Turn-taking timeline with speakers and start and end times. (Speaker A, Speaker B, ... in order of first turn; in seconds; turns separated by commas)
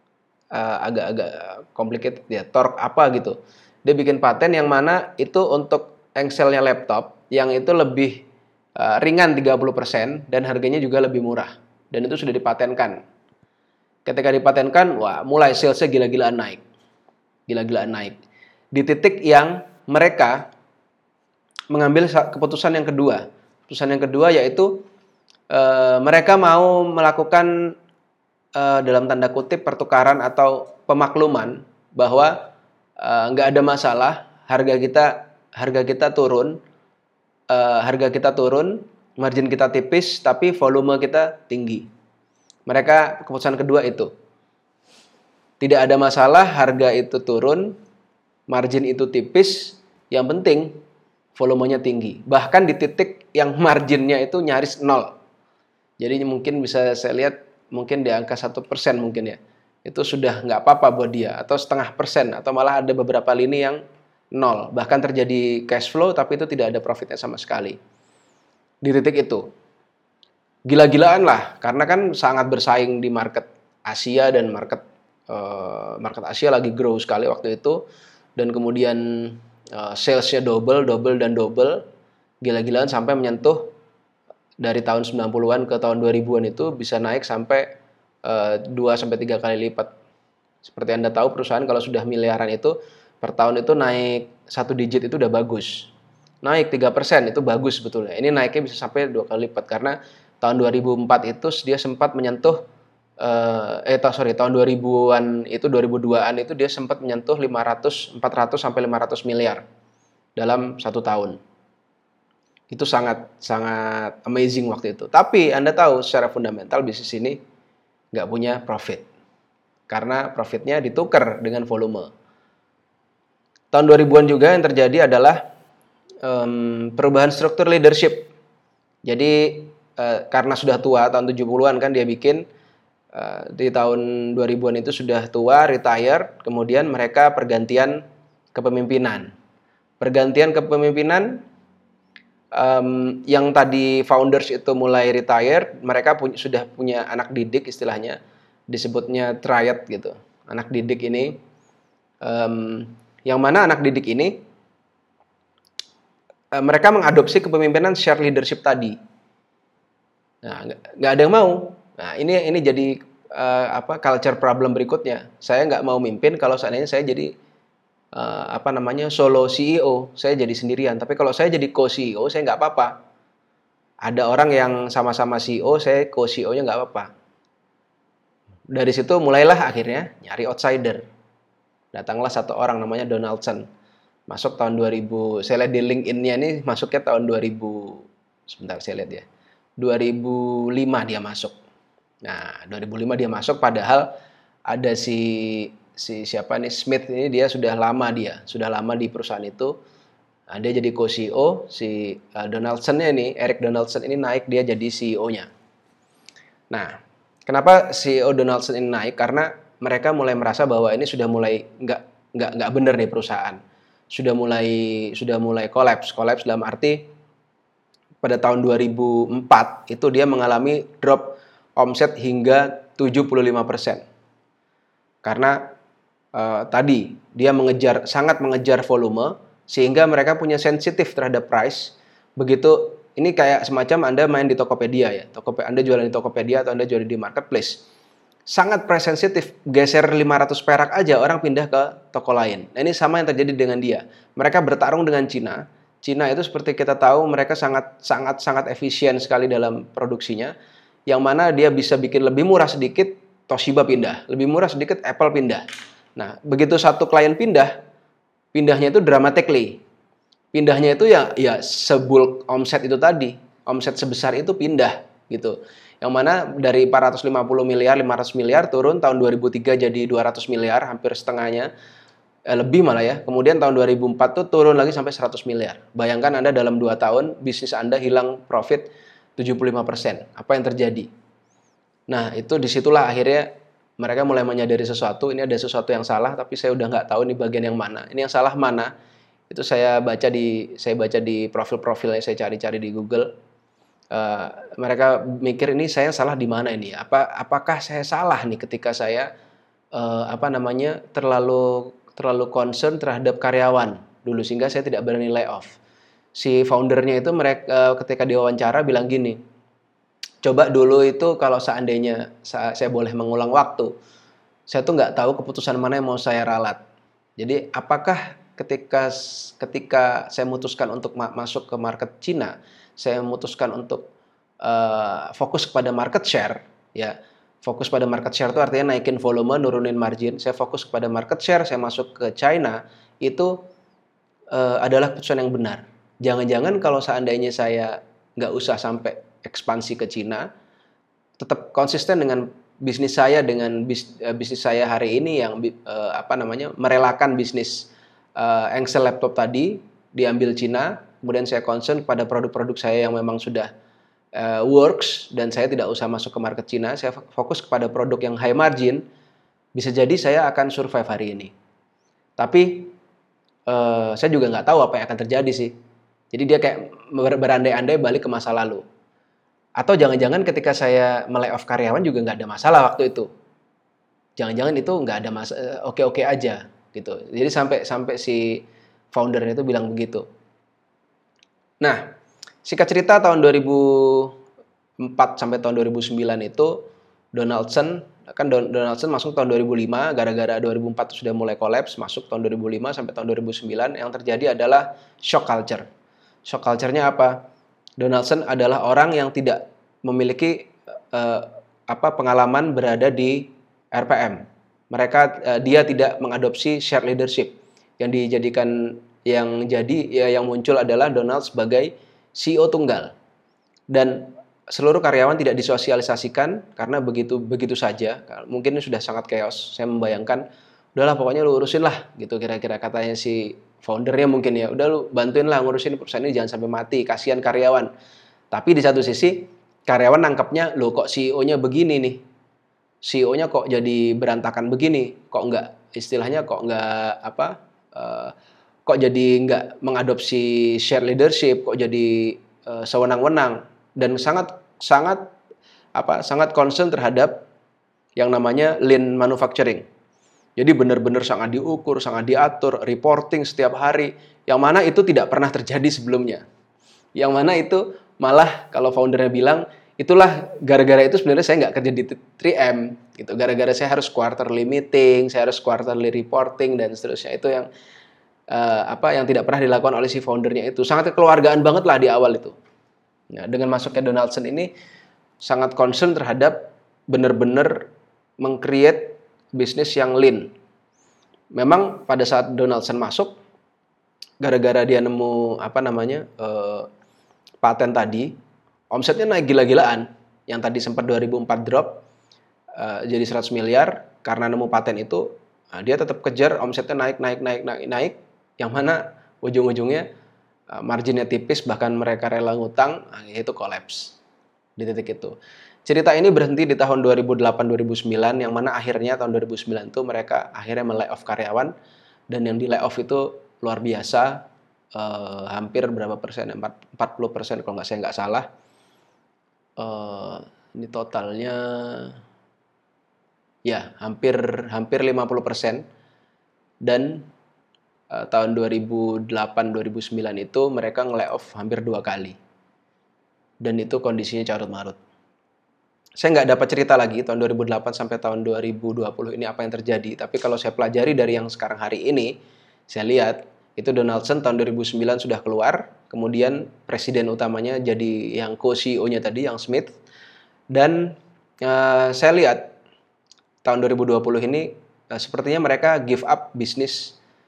Speaker A: 0.5-8.2, Speaker A: 8.8-13.0, Speaker A: 14.1-16.6, Speaker A: 17.5-18.2, Speaker A: 18.7-20.5, Speaker A: 21.7-24.8, Speaker A: 25.5-27.5, Speaker A: 28.6-32.5, Speaker A: 33.0-36.6, Speaker A: 37.5-41.9, Speaker A: 42.7-44.1, Speaker A: 45.6-47.8, Speaker A: 48.5-50.8, Speaker A: 51.4-55.1, Speaker A: 56.0-63.8, Speaker A: 64.3-67.8, Speaker A: 68.8-69.5, Speaker A: 70.7-77.8, Speaker A: 78.4-81.8, Speaker A: 82.4-83.7, Speaker A: 84.6-87.7, Speaker A: 88.2-89.9, Speaker A: 90.6-95.9, Speaker A: 96.4-102.6, Speaker A: 103.2-109.6, Speaker A: 110.4-111.4, Speaker A: 112.7-117.4, Speaker A: 118.1-119.1, Speaker A: 119.9-122.1, Speaker A: 123.7-125.4, Speaker A: 126.2-128.3, Speaker A: 129.1-132.4, Speaker A: 133.1-139.3, Speaker A: 140.0-141.4, Speaker A: 142.6-148.2, Speaker A: 148.7-151.4, Speaker A: 152.2-154.4, Speaker A: 156.5-159.0, Speaker A: 160.4-167.3, Speaker A: 168.1-172.9, Speaker A: 174.0-177.1, Speaker A: 178.7-181.0, Speaker A: 181.9-183.7, Speaker A: 184.3-189.2, Speaker A: 189.8-191.6, Speaker A: 192.2-194.1, Speaker A: 194.7-199.7, Speaker A: 200.5-205.5, Speaker A: 206.7-213.6, Speaker A: 214.1-217.1, Speaker A: 218.2-224.0, Speaker A: 225.2-225.6, Speaker A: 226.3-237.8, Speaker A: 238.5-250.6, Speaker A: 251.1-255.7, Speaker A: 256.2-257.8, Speaker A: 258.5-259.8, Speaker A: 260.5-271.7, Speaker A: 272.5-281.1, Speaker A: 282.1-283.5, Speaker A: 284.0-288.9, Speaker A: 289.5-293.3, Speaker A: 294.1-299.3, Speaker A: 299.9-305.8, Speaker A: 306.4-309.4, Speaker A: 310.4-313.9, Speaker A: 314.7-316.8, Speaker A: 317.4-324.1, Speaker A: 324.6-333.6, Speaker A: 334.5-340.5, Speaker A: 341.4-353.7, Speaker A: 354.4-359.0, Speaker A: 359.8-361.5, Speaker A: 362.4-362.9, Speaker A: 363.7-365.7, Speaker A: 366.3-368.8, Speaker A: 369.8-373.3, Speaker A: 374.4-380.2, Speaker A: 382.6-384.4, Speaker A: 385.0-386.8, Speaker A: 387.3-395.9, Speaker A: 396.5-397.4, Speaker A: 398.0-413.1, Speaker A: 413.9-420.4, Speaker A: 421.0-427.9, Speaker A: 428.5-432.2, Speaker A: 433.0-438.3, Speaker A: 438.9-445.3, Speaker A: 446.0-447.4, Speaker A: 448.2-449.9, Speaker A: 450.6-456.4, Speaker A: 457.2-467.7, Speaker A: 468.5-472.5, Speaker A: 473.3-474.7, Speaker A: 475.4-477.9, Speaker A: 478.4-480.5, Speaker A: 481.6-483.4, Speaker A: 484.4-486.9, Speaker A: 487.6-488.3, Speaker A: 488.9-492.0, Speaker A: 492.8-500.1, Speaker A: 500.7-504.2, Speaker A: 504.8-511.7, Speaker A: 512.3-518.5, Speaker A: 519.8-522.2, Speaker A: 523.7-525.9, Speaker A: 526.8-527.3, Speaker A: 528.1-532.4, Speaker A: 533.6-535.0, Speaker A: 536.2-542.3, Speaker A: 542.9-549.9, Speaker A: 550.7-552.7, Speaker A: 553.6-557.2